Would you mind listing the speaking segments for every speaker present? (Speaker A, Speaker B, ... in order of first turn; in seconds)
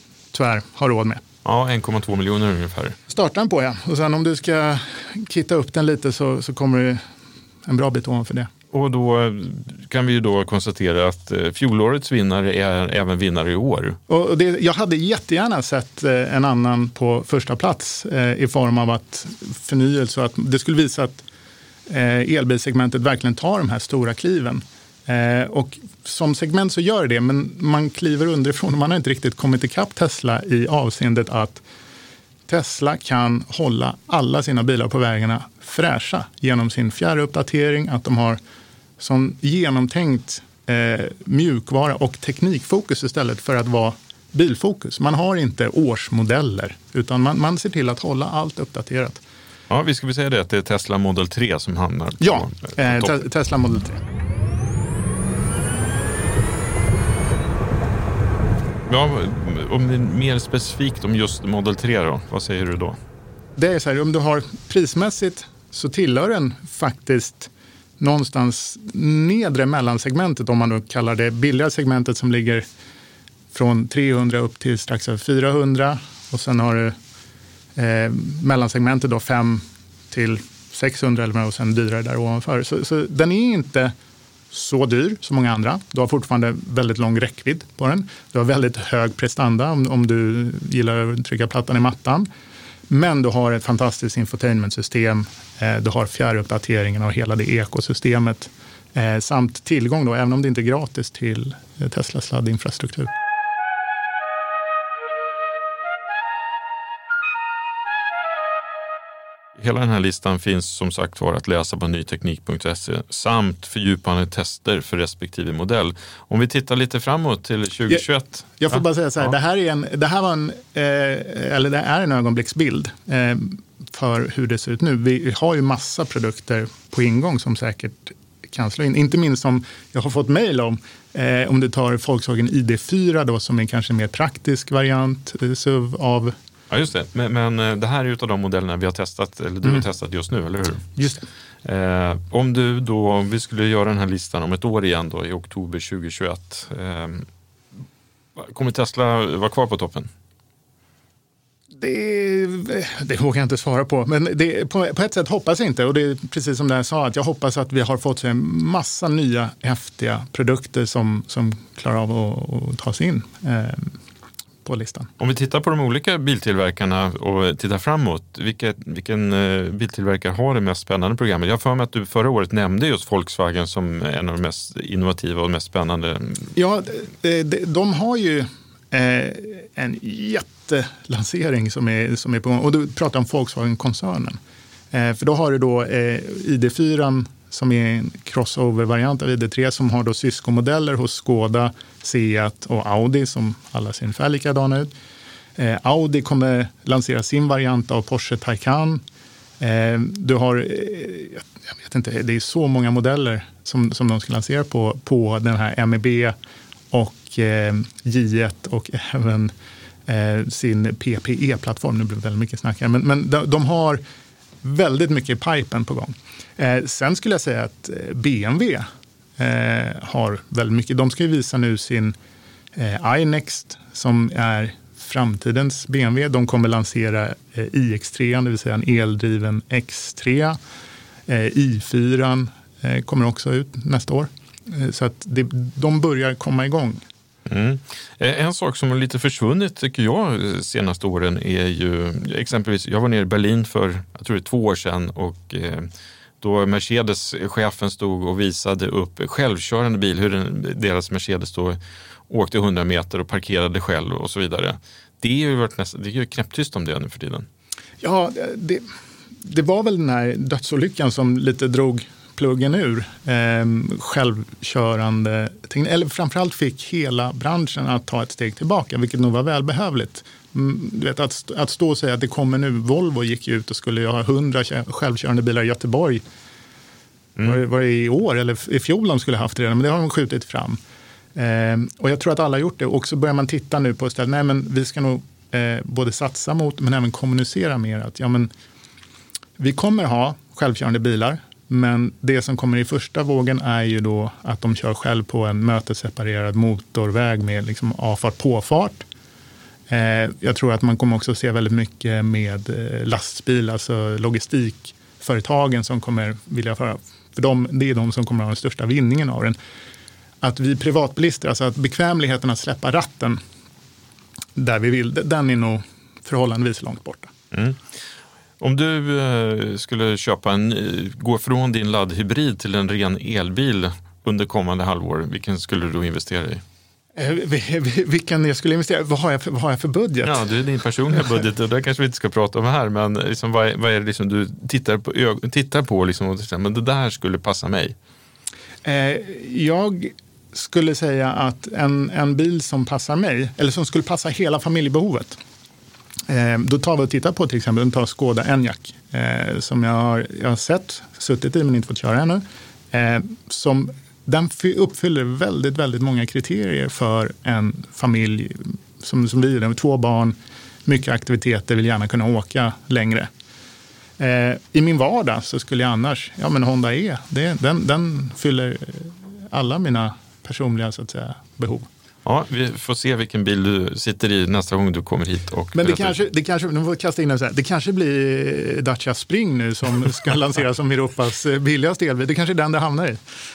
Speaker A: 0.3-1.2, 3.1-7.0, 7.7-8.5, 14.1-21.2, 21.9-31.6, 32.5-38.4, 39.0-49.2, 52.2-54.0, 63.6-72.7, 73.5-77.0, 77.8-83.9, 84.5-92.3, 92.9-103.1, 118.6-136.3, 141.0-141.3, 151.8-163.9, 164.7-165.1, 176.6-184.4, 184.9-194.9, 195.6-199.0, 199.6-206.3, 206.9-209.5, 210.1-214.0, 214.6-222.2, 222.8-230.6, 231.3-237.0, 258.0-258.9, 259.4-276.2, 277.4-280.8, 281.4-288.5, 289.6-299.0, 299.9-309.6, 310.4-313.4, 314.6-317.3, 327.2-330.4, 338.9-345.4, 346.3-363.3, 364.2-371.9, 375.8-383.2
Speaker B: 1.4-3.0, 8.7-14.0, 49.7-53.2, 58.9-63.0, 109.6-119.3, 136.7-141.1, 141.7-147.3, 148.4-150.1, 165.2-176.5, 237.5-257.5, 317.5-318.0, 318.6-326.6, 330.2-338.0, 372.2-376.2